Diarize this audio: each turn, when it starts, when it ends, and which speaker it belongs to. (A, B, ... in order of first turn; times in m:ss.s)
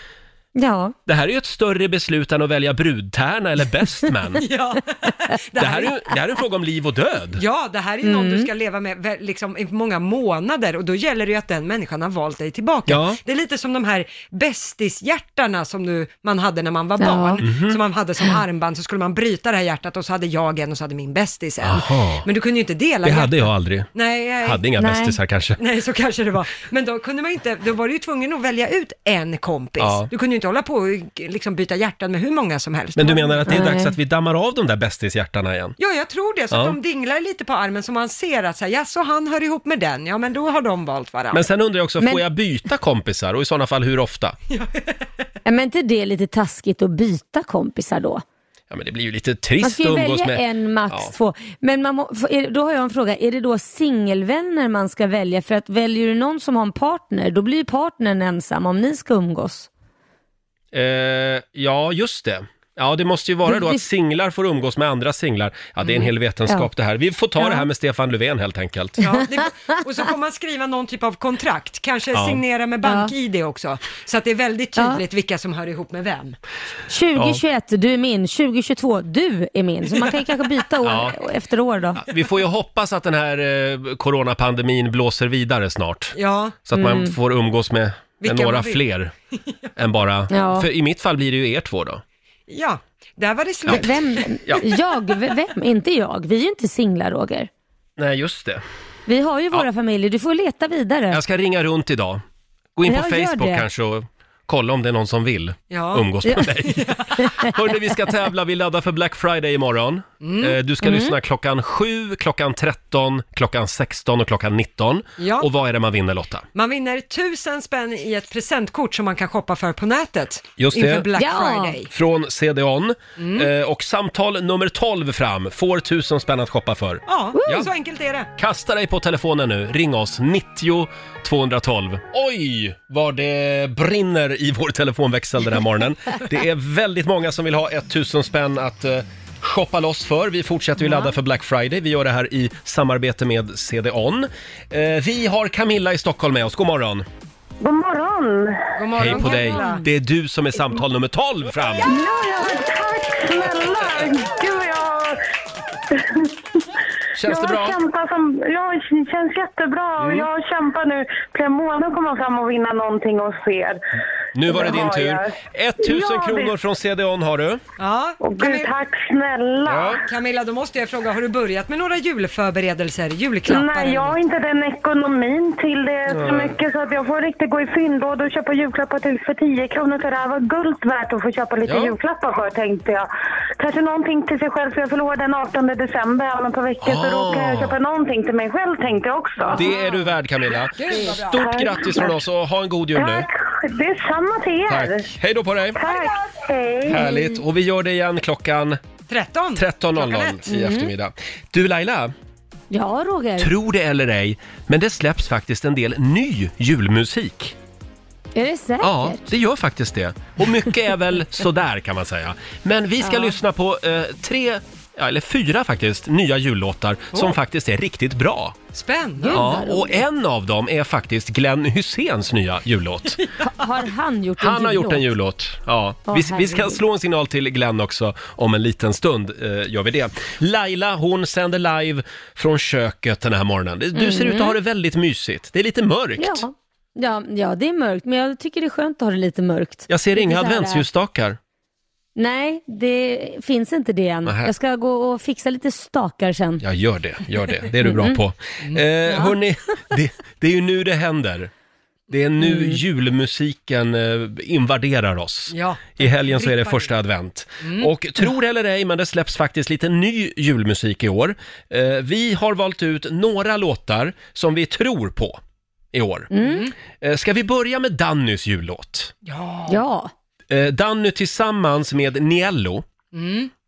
0:00.6-0:01.0 A
0:01.1-0:04.4 B
0:04.4-0:05.9 C
0:05.6-0:07.4 B
0:07.4-0:24.6 C
0:08.0-0:08.5 A
0:12.9-0:13.2 B
0:17.0-0:17.4 A
0:17.4-0:17.8 B
0:21.6-0:22.2 B
0:23.0-0:23.9 B
0:24.4-0:25.6 B
0:24.8-0:25.2 A
0:25.6-0:33.6 C
0:29.8-0:30.1 B
0:33.0-0:35.8 B
0:33.5-0:34.0 A
0:35.8-0:41.4 C
0:36.5-0:36.8 B
0:41.3-0:44.4 B
0:44.5-0:44.9 C
0:45.5-0:48.2 A
0:48.7-0:51.1 B
0:49.6-0:59.7 A
1:00.7-1:09.0 B
1:03.5-1:03.8 A
1:07.4-1:07.7 A
1:09.0-1:16.4 C
1:12.1-1:12.4 B
1:12.8-1:13.1 A
1:14.8-1:15.0 A
1:16.9-1:22.0 A
1:17.2-1:17.4 B
1:20.8-1:21.2 B
1:22.0-1:26.2 B
1:26.2-1:26.6 C
1:26.7-1:29.1 B
1:26.7-1:27.2 A
1:28.2-1:28.8 C
1:29.8-1:32.0 B
1:30.3-1:30.7 A
1:32.5-1:34.3 C
1:33.7-1:37.5 A
1:38.0-1:38.6 B
1:39.1-1:41.2 A
1:41.1-1:42.2 B
1:42.8-1:56.4 B
1:42.8-1:43.7 A
1:45.7-1:46.1 C
1:46.7-1:47.1 C
1:47.2-1:47.5 A
1:50.2-1:50.6 C
1:50.8-1:51.2 A
1:55.2-1:55.5 C
1:56.6-2:01.9 C
2:00.6-2:01.1 B
2:01.2-2:01.8 A
2:01.9-2:07.7 B
2:03.2-2:03.5 C
2:07.1-2:08.3 C
2:08.4-2:27.1 B
2:27.6-2:28.6 D
2:28.8-2:29.8 C
2:29.0-2:31.9 B
2:29.4-2:29.8 A
2:31.8-2:35.2 D
2:35.9-2:36.3 D
2:37.2-2:37.8 B
2:37.2-2:43.8 D
2:40.0-2:40.3 B
2:44.4-2:47.6 B
2:44.5-2:46.5 D
2:47.8-2:48.7 C
2:48.2-2:50.0 D
2:49.7-2:50.0 B
2:50.0-2:54.2 C
2:53.5-3:03.1 D
2:56.1-2:56.6 B
3:01.6-3:02.0 B
3:03.6-3:09.6 D
3:06.8-3:07.8 B
3:09.5-3:13.3 B
3:10.7-3:11.3 C
3:11.3-3:12.2 D
3:13.0-3:15.1 D
3:14.7-3:15.8 B
3:15.8-3:17.0 D
3:15.8-3:16.1 C
3:16.9-3:18.8 B
3:17.0-3:17.4 A
3:19.1-3:20.4 C
3:19.6-3:22.1 B
3:20.5-3:20.9 A
3:22.7-3:23.5 A
3:23.4-3:27.6 B
3:28.4-3:29.2 A
3:28.8-3:38.6 B
3:33.0-3:33.4 A
3:38.7-3:39.4 C
3:39.2-3:40.0 A
3:39.3-3:43.2 B
3:43.4-3:45.0 A
3:44.4-3:56.5 B
3:46.1-3:46.8 A
3:53.9-3:54.6 A
3:56.2-4:00.8 A
3:59.9-4:01.4 B
4:02.2-4:06.6 A
4:04.3-4:04.5 B
4:06.6-4:11.5 B
4:07.8-4:08.2 A
4:09.1-4:09.4 A
4:12.1-4:25.4 B
4:12.4-4:12.8 A
4:15.5-4:16.9 C
4:17.6-4:17.9 C
4:25.9-4:26.3 B
4:26.3-4:26.7 A
4:26.4-4:26.7 C
4:27.0-4:29.1 B
4:29.2-4:29.8 C
4:29.7-4:30.1 A
4:30.5-4:32.8 B
4:33.1-4:33.5 C